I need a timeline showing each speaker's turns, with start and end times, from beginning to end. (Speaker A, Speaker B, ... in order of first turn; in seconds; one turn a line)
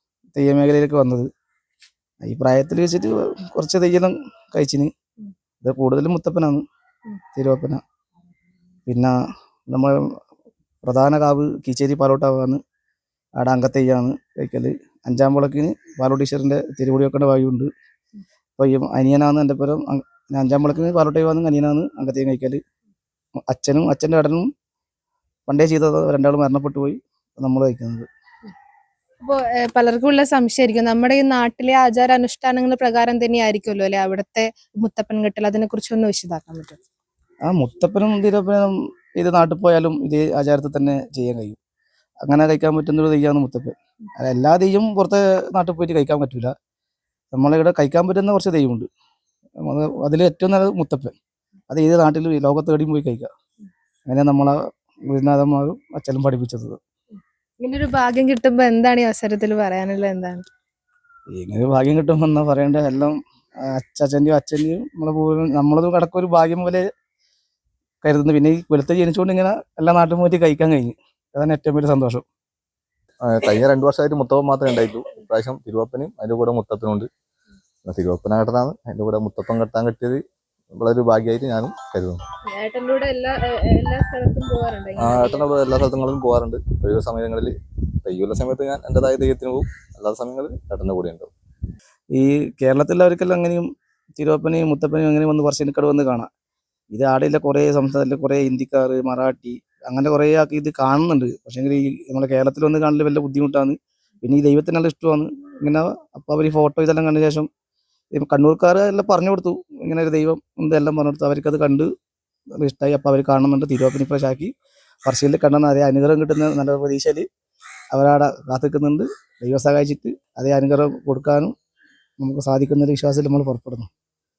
Speaker A: 0.3-1.3
Speaker A: 2.2-4.9
Speaker A: 5.6-6.6
Speaker A: 7.3-7.8
Speaker A: 8.9-9.1
Speaker A: 9.7-10.2
Speaker A: 10.8-12.6
Speaker A: 13.4-17.7
Speaker A: 18.6-22.6
Speaker A: 23.5-24.5
Speaker A: 25.5-28.1
Speaker B: 29.2-36.8
Speaker A: 37.4-41.6
Speaker A: 42.2-46.5
Speaker A: 47.3-48.9
Speaker A: 49.6-51.1
Speaker A: 51.7-53.3
Speaker A: 54.1-56.8
Speaker B: 57.6-60.4
Speaker A: 61.3-66.8
Speaker A: 68.0-72.2
Speaker C: 73.2-77.1
Speaker C: 77.8-82.2
Speaker B: 82.5-85.5
Speaker C: 85.0-91.3
Speaker A: 92.1-96.3
Speaker A: 96.9-107.5
Speaker A: 108.1-111.9
Speaker A: 112.5-114.5
Speaker A: 115.0-117.2
Speaker A: 117.9-121.5
Speaker A: 122.2-123.9